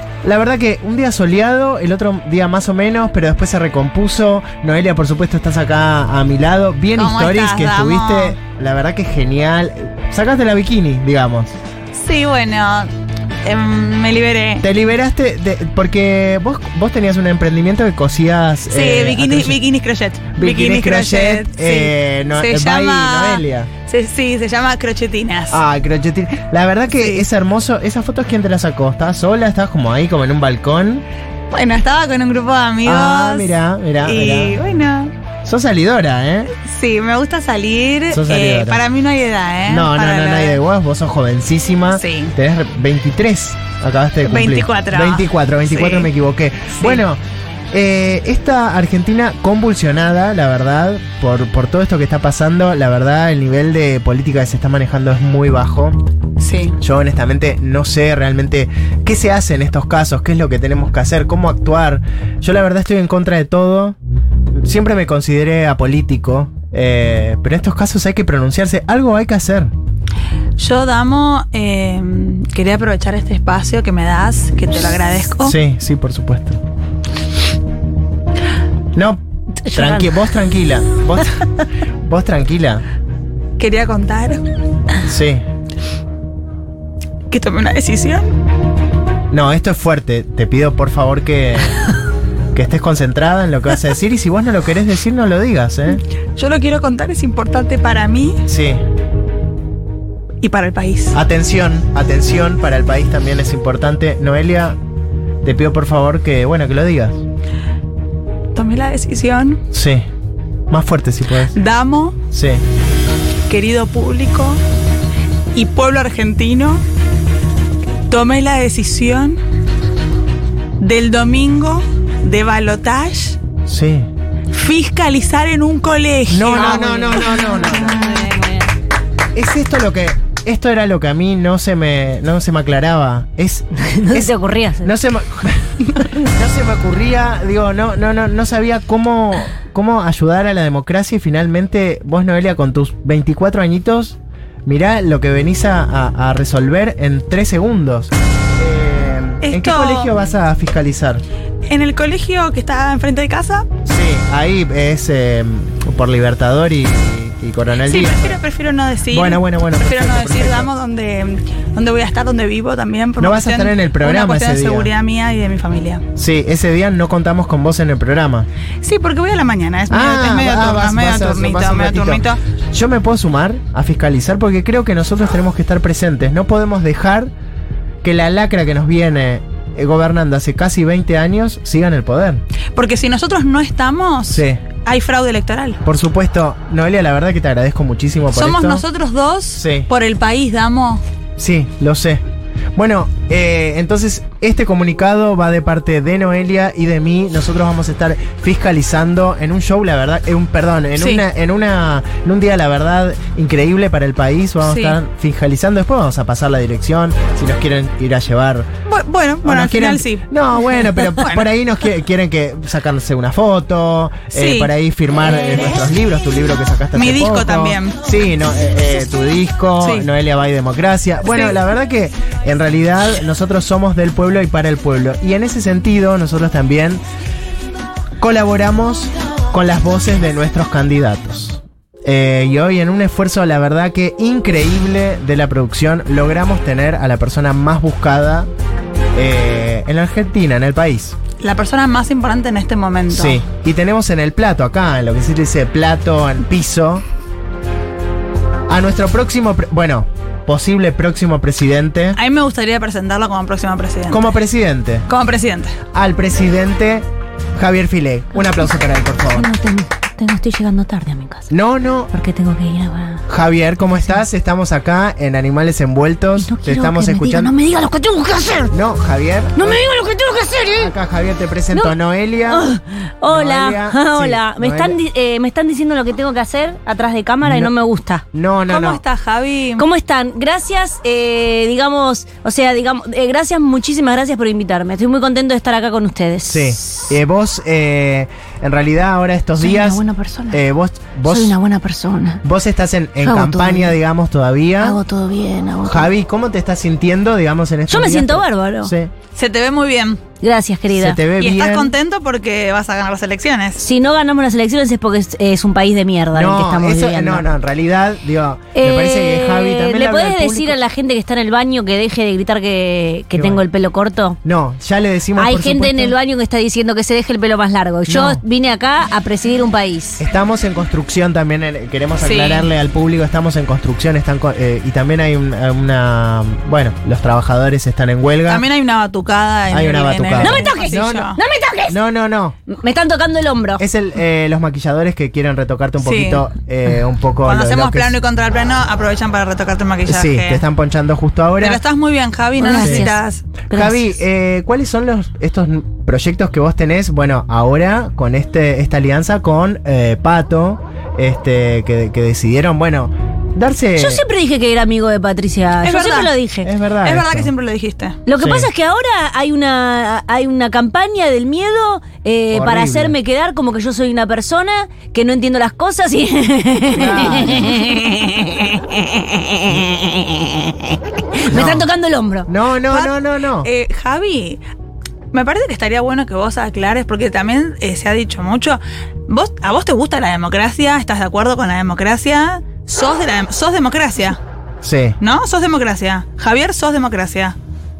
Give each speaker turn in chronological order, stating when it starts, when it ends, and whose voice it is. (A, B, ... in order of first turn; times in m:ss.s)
0:00.2-0:11.6 A
0:07.0-0:08.4 B
0:11.9-0:12.9 B
0:13.4-0:14.7 B
0:14.6-0:19.6 A
0:18.7-0:25.6 B
0:20.3-0:23.7 A
0:25.5-0:31.0 A
0:26.9-0:27.2 B
0:31.5-0:35.1 B
0:32.8-0:34.6 A
0:35.4-0:36.5 A
0:36.5-0:40.6 B
0:38.1-0:38.8 A
0:39.7-0:47.2 A
0:41.9-0:42.3 B
0:44.2-0:46.1 B
0:47.7-0:56.0 A
0:56.4-0:56.8 B
0:56.8-1:04.0 A
1:04.5-1:09.7 A
1:10.6-1:15.6 B
1:15.4-1:16.6 A
1:18.9-1:22.8 A
1:19.6-1:20.2 C
1:23.6-1:24.4 B
1:25.0-1:25.4 A
1:27.3-1:28.3 B
1:29.3-1:31.8 A
1:32.5-1:36.0 A
1:36.4-1:38.4 B
1:38.5-1:38.8 A
1:40.4-1:41.2 B
1:41.1-1:44.8 A
1:45.4-1:47.2 A
1:48.5-1:49.6 B
1:49.7-1:50.0 A
1:50.7-1:51.6 A
1:51.5-1:52.2 B
1:52.3-1:52.6 A
1:53.5-1:54.6 B
1:55.5-1:56.8 B
1:58.1-1:59.4 B
2:00.8-2:03.4 B
2:03.7-2:04.1 A
2:04.5-2:07.4 B
2:06.3-2:08.0 A
2:06.5-2:08.7 C
2:09.3-2:31.2 A
2:13.8-2:15.0 C
2:29.4-2:30.1 B
2:31.6-2:33.7 B
2:33.8-2:38.4 A
2:37.8-2:46.0 B
2:39.1-2:40.7 A
2:43.2-2:44.9 A
2:46.2-2:48.5 A
2:48.8-2:52.4 B
2:49.9-2:57.3 A
2:58.0-3:02.4 A
3:02.8-3:05.8 B
3:04.3-3:04.6 A
3:05.8-3:08.8 A
3:08.3-3:11.0 B
3:09.6-3:09.9 A
3:11.4-3:12.2 A
3:12.7-3:28.7 A
3:21.0-3:21.2 B
3:24.6-3:25.0 B
3:28.8-3:31.5 B
3:29.4-3:47.0 A
3:34.3-3:34.7 B
3:36.9-3:38.0 B
3:39.8-3:40.1 B
3:41.3-3:41.6 B
3:48.2-3:58.5 A
3:59.1-4:01.2 A
4:01.4-4:03.4 B
4:03.1-4:07.0 A
4:08.7-4:12.2 A
4:12.2-4:14.3 B
4:14.1-4:15.1 A
4:15.1-4:15.8 B
4:15.9-4:19.5 A
4:19.3-4:21.5 C
4:21.5-4:22.1 A
4:22.1-4:23.2 C
4:23.3-4:27.5 A
4:26.4-4:28.7 C
4:28.7-4:29.8 A
4:29.6-4:30.9 C
4:30.8-4:32.7 A
4:31.7-4:38.2 C
4:33.3-4:35.0 A
4:37.4-4:37.7 A
4:38.3-4:39.0 A
4:38.7-4:39.8 B
4:39.8-4:47.2 C
4:46.4-4:51.5 A
4:49.6-4:50.6 C
4:51.2-4:52.4 C
4:52.4-4:55.0 A
4:53.2-4:54.0 C
4:54.8-4:56.1 C
4:55.8-4:59.1 A
4:57.9-4:58.9 C
4:59.3-5:00.2 B
5:00.4-5:01.2 C
5:00.9-5:01.9 A
5:01.4-5:03.8 B
5:03.8-5:07.4 C
5:06.3-5:10.8 A
5:08.7-5:14.4 C
5:13.3-5:13.6 A
5:14.4-5:16.2 A
5:15.4-5:20.2 C
5:18.0-5:18.4 A
5:20.2-5:28.6 A
5:22.2-5:22.7 B
5:28.4-5:31.4 B
5:29.7-5:31.3 A
5:30.4-5:32.0 C
5:31.9-5:32.6 A
5:32.6-5:33.8 C
5:33.8-5:38.1 A
5:36.0-5:36.5 B
5:37.4-5:40.6 B
5:40.0-5:41.8 A
5:41.6-5:43.5 B
5:42.6-5:43.1 C
5:42.8-5:43.1 A
5:43.7-5:44.1 C
5:43.7-5:54.2 A
5:54.0-5:56.7 C
5:55.8-5:56.3 B
5:56.6-5:57.5 A
5:57.0-5:58.2 B
5:58.2-6:12.5 C
5:58.4-5:58.7 A
6:02.5-6:03.2 A
6:06.9-6:07.9 A
6:11.4-6:11.9 A
6:12.5-6:13.7 A
6:12.9-6:14.6 B
6:15.3-6:24.4 B
6:24.8-6:25.2 A
6:25.2-6:27.6 B